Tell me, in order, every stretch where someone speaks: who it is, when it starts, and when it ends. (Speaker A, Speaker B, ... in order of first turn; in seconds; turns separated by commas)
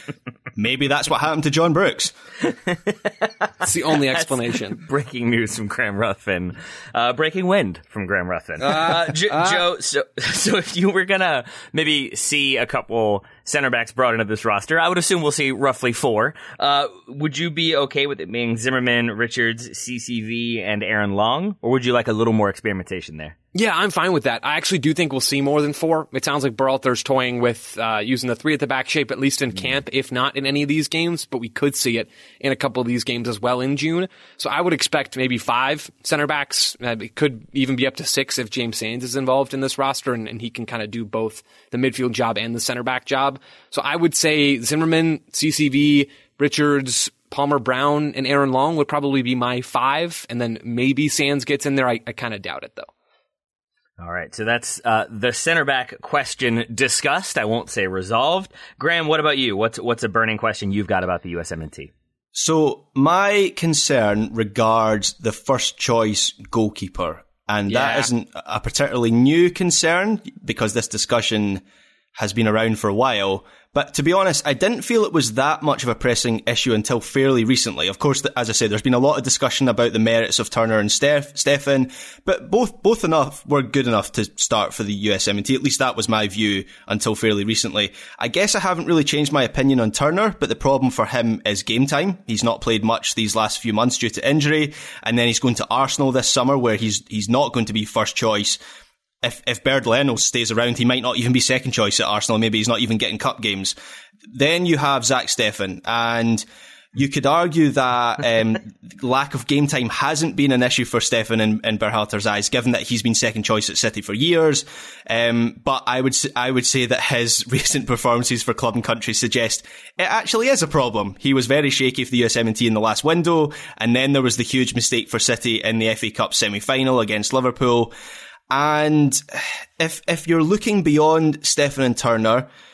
Speaker A: 0.5-2.1, Speaker B: 2.5-3.6, Speaker C: 3.6-4.8, Speaker B: 4.2-23.3, Speaker C: 8.6-9.6, Speaker C: 23.5-52.9, Speaker B: 54.0-61.9, Speaker A: 62.3-71.6, Speaker C: 67.7-68.1, Speaker A: 72.1-98.6, Speaker A: 99.2-103.7, Speaker A: 104.3-127.9, Speaker A: 128.5-132.5